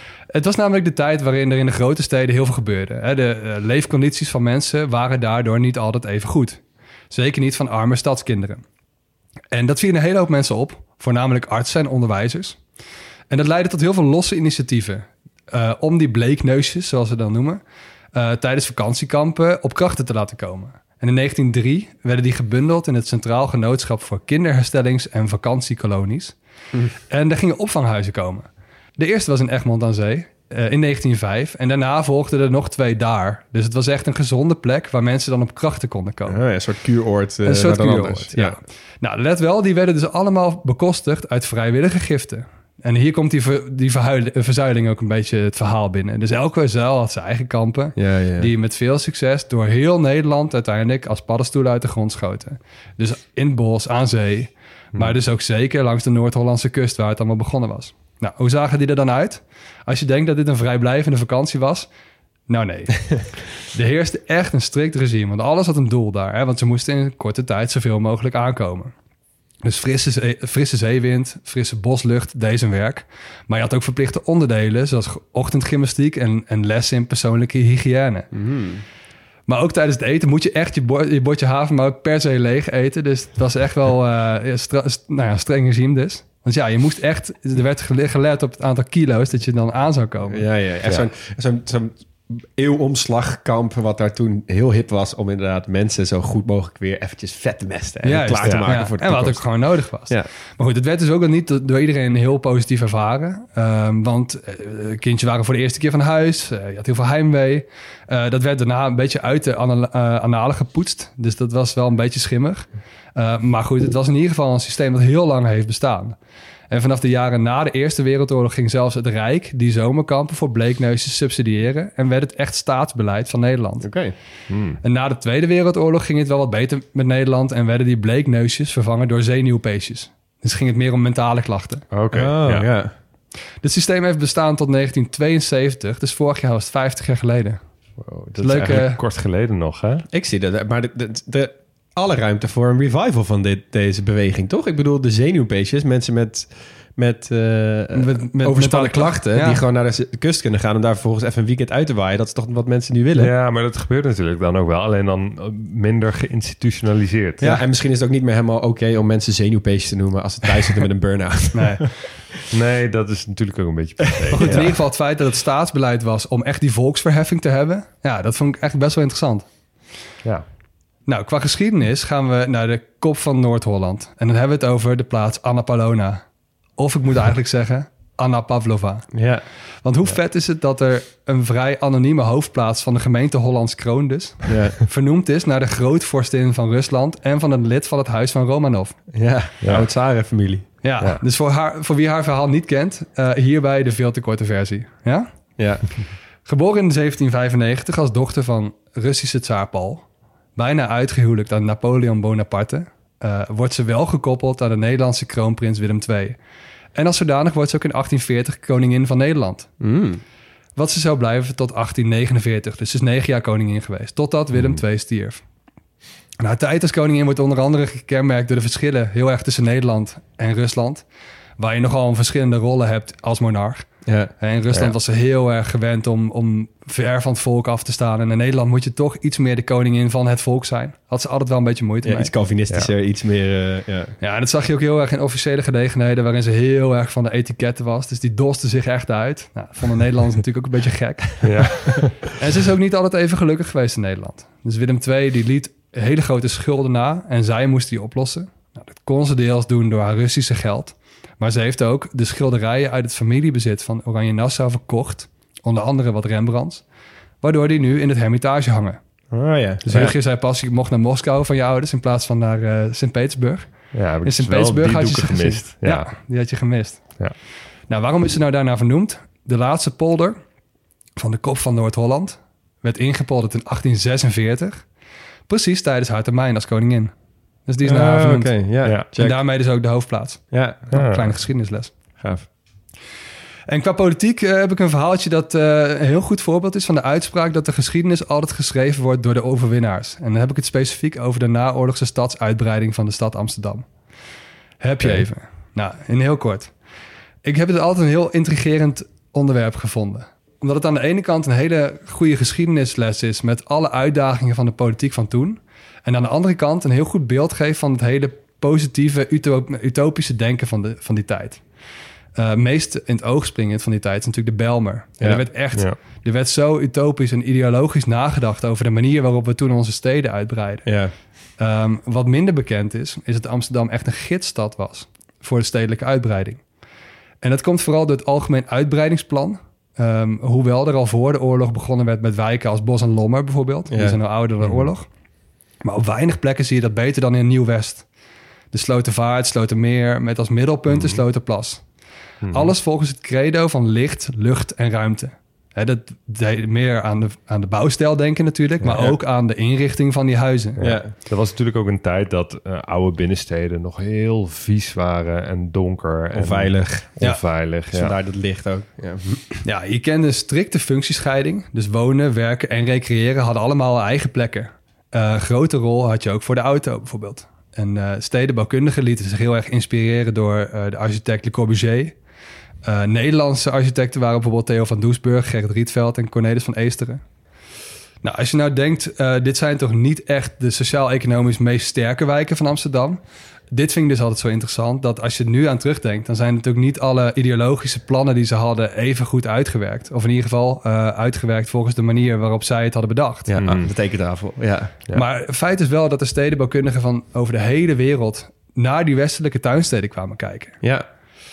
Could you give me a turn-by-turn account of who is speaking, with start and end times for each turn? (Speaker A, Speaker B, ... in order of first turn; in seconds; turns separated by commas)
Speaker A: 0.3-8.6, Speaker A: 9.5-12.6, Speaker A: 13.3-17.6, Speaker A: 18.1-26.4, Speaker A: 27.1-36.4, Speaker B: 36.2-38.6, Speaker A: 37.4-61.9, Speaker B: 48.0-48.5, Speaker A: 62.5-68.9, Speaker A: 69.6-78.3, Speaker B: 78.3-78.8, Speaker A: 79.5-90.5, Speaker B: 90.2-100.3, Speaker A: 98.0-116.2, Speaker C: 98.4-98.7, Speaker A: 116.7-123.9, Speaker B: 123.8-124.1, Speaker C: 124.5-124.8, Speaker A: 124.8-131.8, Speaker C: 131.9-132.7, Speaker B: 132.1-132.9, Speaker A: 133.6-137.6, Speaker C: 138.0-140.0, Speaker A: 138.4-139.0, Speaker B: 140.1-153.3, Speaker A: 147.9-149.6, Speaker C: 153.1-157.4, Speaker B: 157.4-162.4, Speaker A: 161.5-161.8, Speaker C: 162.5-164.8, Speaker B: 164.2-164.7, Speaker A: 164.3-169.4, Speaker A: 171.1-176.2, Speaker A: 176.8-179.1, Speaker B: 179.1-179.4, Speaker A: 179.8-189.0, Speaker B: 184.5-184.8, Speaker B: 189.1-190.7, Speaker C: 189.6-189.9, Speaker A: 190.8-195.3, Speaker B: 195.6-195.8, Speaker A: 196.4-200.0, Speaker A: 200.6-206.4, Speaker A: 206.9-209.7, Speaker B: 209.8-210.2, Speaker A: 210.8-215.4, Speaker A: 216.4-221.0, Speaker A: 221.6-223.9, Speaker B: 224.1-224.3, Speaker A: 224.4-232.3, Speaker B: 232.0-234.1, Speaker A: 234.2-241.5, Speaker C: 241.4-242.2, Speaker A: 242.3-256.8, Speaker A: 257.4-259.0, Speaker B: 259.3-260.1, Speaker A: 259.8-267.0, Speaker C: 263.9-266.1, Speaker A: 267.9-270.4, Speaker A: 271.2-274.9, Speaker A: 275.5-277.1, Speaker A: 277.7-278.6, Speaker B: 277.8-279.4, Speaker A: 279.1-281.9, Speaker B: 280.5-280.9, Speaker C: 280.9-281.3, Speaker B: 282.2-282.5, Speaker A: 283.7-293.9, Speaker A: 294.8-296.7, Speaker A: 297.4-311.6, Speaker A: 312.3-320.9, Speaker B: 315.2-315.4, Speaker B: 320.8-321.1, Speaker A: 321.6-326.6, Speaker A: 327.4-335.1, Speaker B: 333.9-334.2, Speaker C: 334.6-334.9, Speaker A: 335.8-338.0, Speaker A: 338.7-341.8, Speaker C: 340.9-341.2, Speaker C: 342.4-342.7, Speaker A: 342.5-350.8, Speaker C: 348.9-349.1, Speaker C: 350.8-358.1, Speaker B: 350.8-351.1, Speaker B: 356.3-357.1, Speaker B: 357.9-359.6, Speaker A: 359.6-372.1, Speaker A: 372.8-377.2, Speaker A: 378.2-383.2, Speaker A: 383.7-393.5, Speaker B: 393.5-394.9, Speaker C: 393.6-393.9, Speaker A: 395.1-400.8